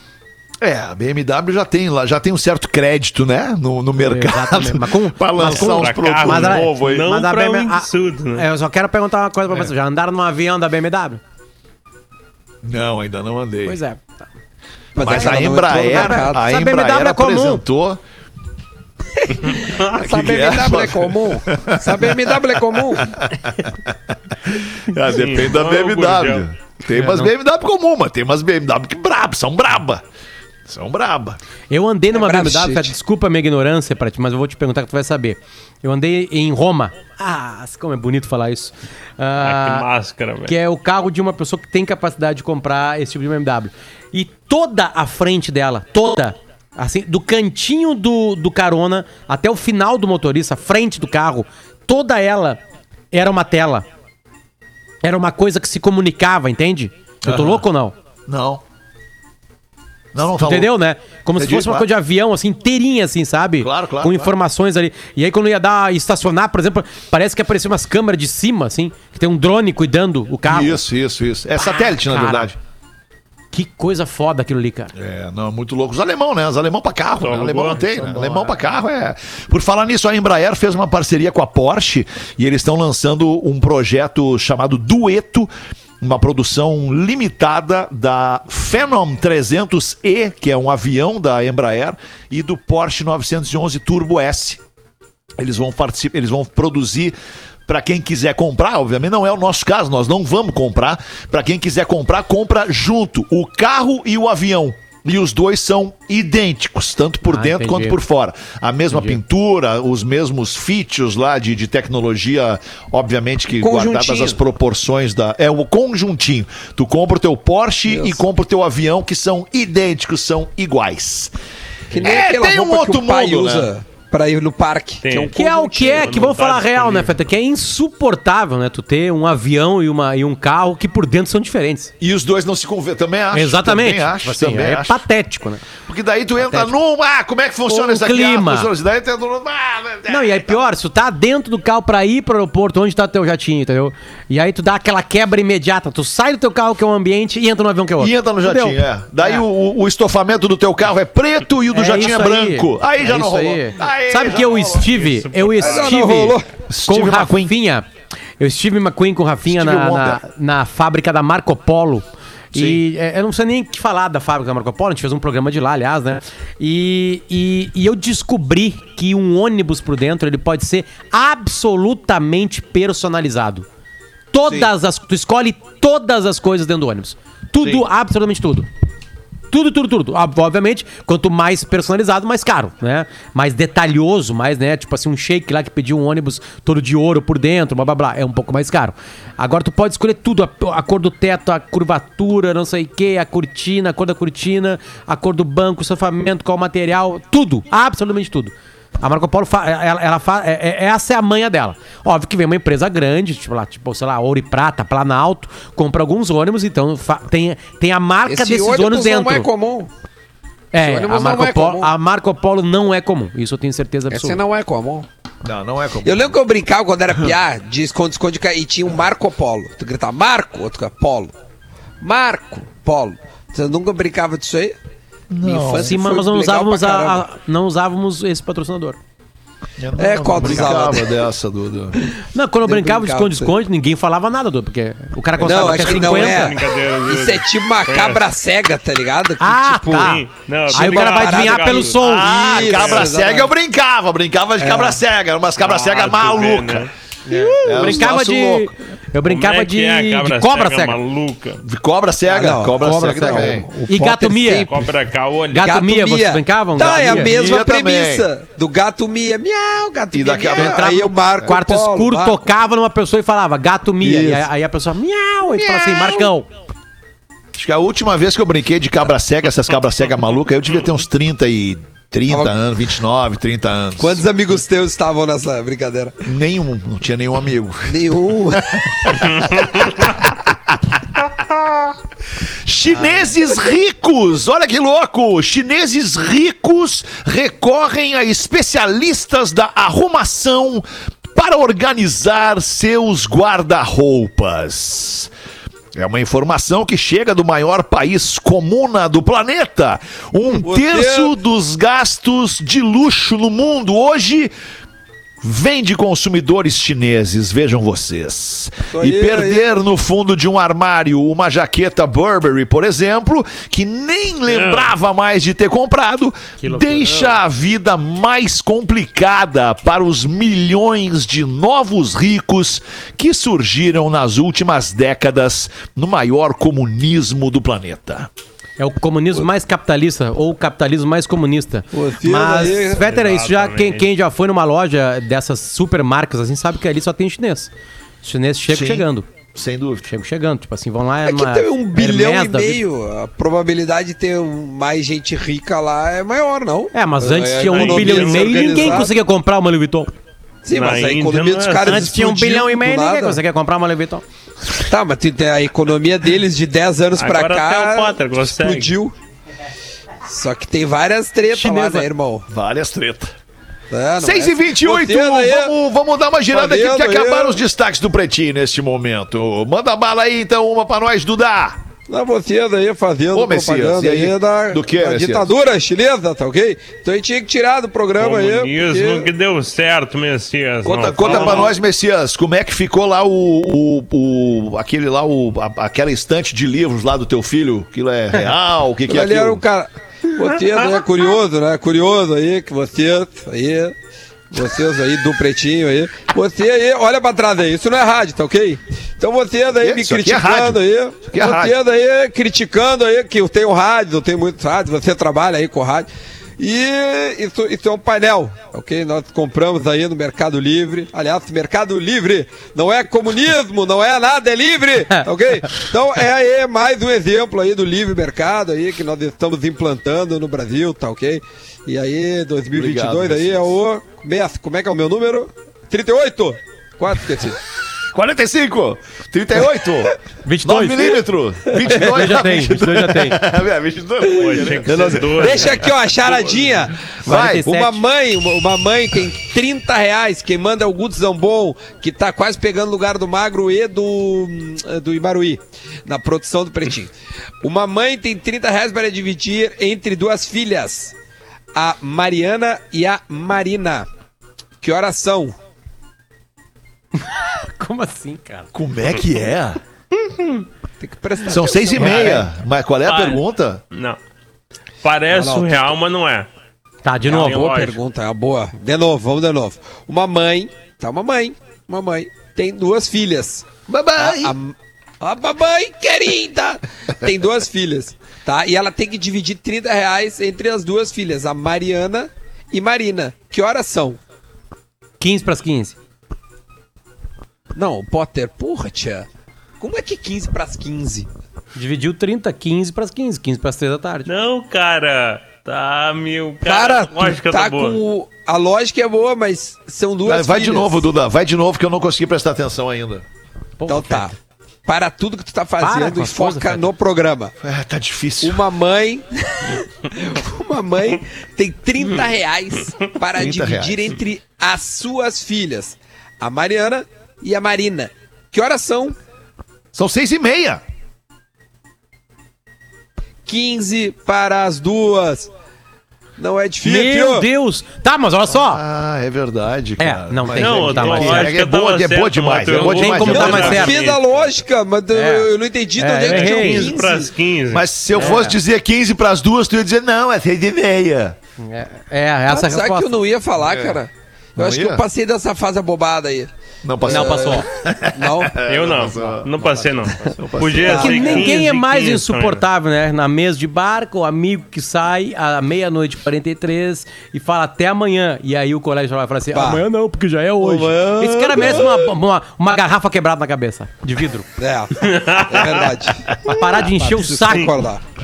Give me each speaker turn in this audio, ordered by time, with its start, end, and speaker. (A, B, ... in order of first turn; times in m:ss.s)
0:00.6-0:07.0 A
0:04.1-0:11.2 B
0:05.4-0:08.4 C
0:12.6-0:13.8 A
0:13.6-0:14.2 B
0:14.9-0:16.4 D
0:15.0-0:18.0 A
0:15.2-0:17.6 B
0:19.5-0:23.1 D
0:20.0-0:30.0 A
0:25.1-0:26.4 C
0:26.9-0:27.3 B
0:30.6-0:31.4 A
0:31.7-0:39.8 B
0:32.1-0:32.9 D
0:39.4-0:40.5 C
0:40.5-0:52.6 B
0:53.1-0:53.8 B
0:55.0-0:57.9 B
0:57.2-0:57.6 A
0:58.3-0:58.6 A
1:00.1-1:00.7 A
1:00.4-1:10.8 B
1:01.3-1:01.9 A
1:03.6-1:04.3 A
1:10.4-1:12.5 A
1:11.6-1:12.5 B
1:13.5-1:14.9 B
1:14.9-1:25.5 A
1:17.2-1:17.8 C
1:17.7-1:18.6 B
1:26.0-1:34.6 A
1:35.4-1:37.2 A
1:37.7-2:01.3 A
1:47.2-1:48.0 B
1:48.9-1:49.2 B
1:53.6-1:54.4 D
2:01.9-2:06.1 D
2:02.0-2:03.7 A
2:05.0-2:05.3 C
2:05.3-2:11.9 B
2:06.0-2:07.1 C
2:12.0-2:15.0 A
2:13.3-2:15.7 B
2:15.7-2:20.6 A
2:16.4-2:16.7 B
2:17.7-2:18.7 B
2:20.1-2:29.4 B
2:28.0-2:35.0 A
2:31.7-2:37.9 B
2:34.9-2:35.9 C
2:35.6-2:36.5 D
2:36.7-2:37.5 A
2:38.4-2:53.6 B
2:39.4-2:40.2 A
2:42.5-2:42.8 A
2:54.3-2:58.7 B
2:54.4-2:54.7 A
2:59.5-3:29.5 B
3:28.2-3:29.9 D
3:30.7-3:34.4 B
3:30.8-3:31.9 D
3:34.1-3:35.1 D
3:35.4-3:36.3 A
3:36.0-3:41.3 D
3:42.0-3:44.7 D
3:45.3-3:45.9 A
3:45.4-3:47.2 D
3:45.8-3:49.0 B
3:49.8-3:52.0 A
3:50.0-3:51.1 D
3:50.4-3:50.7 B
3:52.3-3:56.5 B
3:52.6-3:53.5 D
3:55.4-4:00.2 D
3:55.7-3:58.2 C
3:59.4-4:02.4 B
3:59.9-4:01.9 C
4:00.7-4:03.5 D
4:02.0-4:06.9 A
4:02.6-4:03.1 C
4:04.6-4:05.0 D
4:05.6-4:06.9 C
4:07.3-4:11.0 B
4:07.6-4:08.7 A
4:09.2-4:11.6 C
4:11.6-4:13.7 A
4:12.3-4:14.8 D
4:12.8-4:14.7 B
4:14.7-4:15.7 C
4:15.5-4:17.3 B
4:15.5-4:22.4 D
4:16.8-4:18.3 A
4:20.1-4:20.8 A
4:20.5-4:26.5 B
4:24.0-4:24.5 A
4:25.5-4:26.3 A
4:27.5-4:34.2 A
4:32.3-4:32.5 D
4:34.0-4:36.2 D
4:36.2-4:41.8 A
4:37.9-4:38.9 D
4:42.6-4:55.3 A
4:56.0-5:04.5 A
5:00.6-5:01.3 D
5:05.4-5:28.3 A
5:08.9-5:09.6 D
5:14.5-5:14.9 C
5:16.6-5:17.4 B
5:28.8-5:37.7 B
5:31.9-5:33.0 D
5:33.0-5:34.1 C
5:38.2-5:39.3 B
5:38.7-5:40.1 A
5:40.1-5:42.8 B
5:41.2-5:49.1 D
5:46.9-5:50.1 B
5:47.7-5:49.1 C
5:50.6-5:53.4 D
5:50.7-5:52.1 C
5:51.8-5:54.2 B
5:54.9-5:59.1 D
5:57.2-5:58.9 C
6:00.2-6:02.4 D
6:01.5-6:02.1 B
6:02.5-6:03.3 A
6:03.9-6:05.7 D
6:04.2-6:11.8 A
6:06.5-6:07.6 D
6:12.1-6:19.3 D
6:13.3-6:15.5 A
6:18.2-6:21.7 C
6:20.8-6:29.6 A
6:20.9-6:21.7 D
6:29.1-6:33.9 D
6:34.5-6:46.1 D
6:39.7-6:41.8 A
6:46.6-7:07.6 D
7:02.7-7:03.8 A
7:08.1-7:17.6 A
7:10.4-7:11.2 B
7:11.9-7:13.4 B
7:14.2-7:31.1 D
7:14.4-7:15.8 C
7:17.3-7:18.0 B
7:31.7-7:34.1 D
7:34.8-7:35.5 D
7:37.2-7:38.7 B
7:38.7-7:39.8 A
7:41.0-7:42.5 D
7:41.4-7:43.8 A
7:43.0-7:44.2 C
7:45.0-7:46.5 C
7:45.3-7:45.9 D
7:47.0-7:47.9 B
7:47.3-7:48.0 C
7:47.3-7:53.7 D
7:53.9-7:54.5 A
7:54.2-8:04.2 D
8:05.2-8:06.0 B
8:07.7-8:09.3 D
8:09.8-8:11.3 D
8:11.7-8:14.3 B
8:14.2-8:18.0 C
8:16.6-8:21.0 D
8:20.2-8:23.2 A
8:23.8-8:24.3 B
8:23.9-8:24.3 D
8:24.8-8:27.5 D
8:25.8-8:26.9 B
8:27.6-8:28.6 A
8:28.4-8:39.2 D
8:33.3-8:34.2 A
8:39.9-8:40.8 A
8:43.4-8:45.5 D
8:46.4-8:47.4 D
8:46.8-8:48.8 B
8:48.5-8:53.9 A
8:50.0-8:51.5 B
8:50.6-8:54.5 C
8:52.7-8:54.0 B
8:53.3-8:57.3 D
8:55.1-8:56.9 B
8:56.3-8:58.0 C
8:57.7-9:01.4 A
8:58.1-8:58.6 B
9:01.6-9:03.1 B
9:02.5-9:06.5 D
9:03.6-9:03.9 C
9:04.6-9:05.0 A
9:06.8-9:11.4 A
9:07.0-9:07.6 D
9:07.0-9:07.7 B
9:08.1-9:08.6 D
9:08.7-9:12.6 C
9:10.8-9:11.5 D
9:10.9-9:24.5 B
9:19.5-9:19.8 D
9:20.6-9:22.0 D
9:24.6-9:26.3 D
9:25.0-9:25.8 C
9:26.5-9:27.7 B
9:26.8-9:28.0 D